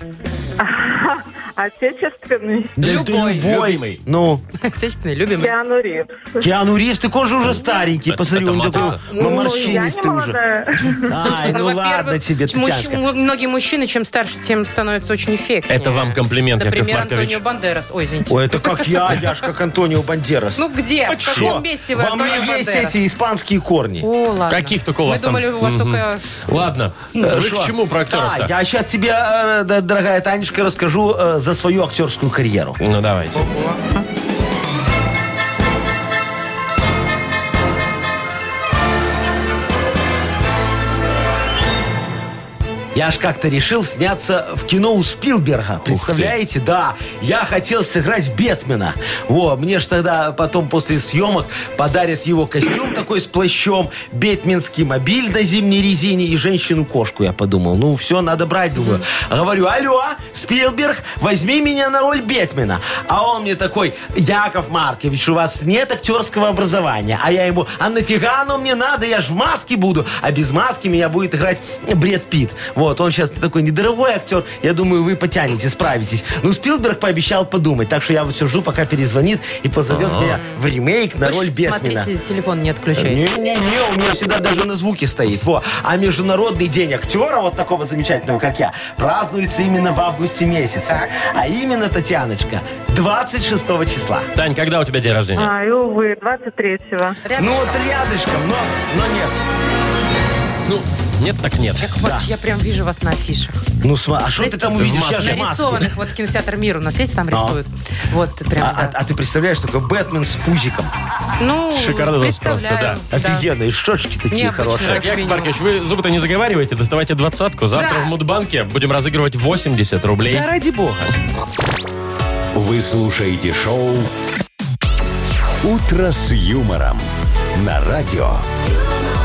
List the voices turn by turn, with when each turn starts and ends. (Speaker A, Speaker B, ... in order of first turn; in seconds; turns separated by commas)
Speaker A: 0.6-2.8, Speaker B: 2.8-4.4, Speaker C: 2.8-3.5, Speaker D: 2.8-4.0, Speaker C: 4.6-5.5, Speaker A: 5.4-6.5, Speaker B: 6.4-10.4, Speaker D: 8.1-9.0, Speaker C: 9.1-9.8, Speaker A: 9.1-11.2, Speaker B: 11.1-13.0, Speaker C: 11.2-19.2, Speaker D: 15.7-17.4, Speaker B: 18.3-20.6, Speaker C: 20.6-23.0, Speaker D: 21.1-21.6, Speaker B: 21.2-24.1, Speaker C: 24.0-26.3, Speaker D: 24.5-28.5, Speaker B: 27.2-32.8, Speaker D: 32.8-33.5, Speaker C: 33.4-33.8, Speaker B: 42.9-82.1, Speaker D: 45.9-46.4, Speaker C: 58.8-59.0, Speaker D: 79.9-80.4, Speaker C: 80.3-80.6, Speaker C: 81.2-83.3, Speaker B: 82.9-94.3, Speaker D: 94.3-95.5, Speaker A: 95.3-97.2, Speaker C: 97.2-97.8, Speaker B: 97.4-99.3, Speaker D: 100.7-101.9, Speaker C: 101.8-103.6, Speaker B: 102.0-102.3, Speaker B: 103.8-105.9, Speaker C: 104.4-109.0, Speaker D: 104.8-105.4, Speaker B: 107.3-107.6, Speaker B: 108.6-110.9, Speaker C: 111.4-113.5, Speaker D: 111.7-113.0, Speaker B: 113.1-115.1, Speaker C: 114.3-115.5, Speaker D: 114.8-120.5, Speaker C: 117.7-118.1, Speaker B: 120.2-121.1, Speaker E: 122.5-124.1, Speaker E: 125.6-128.4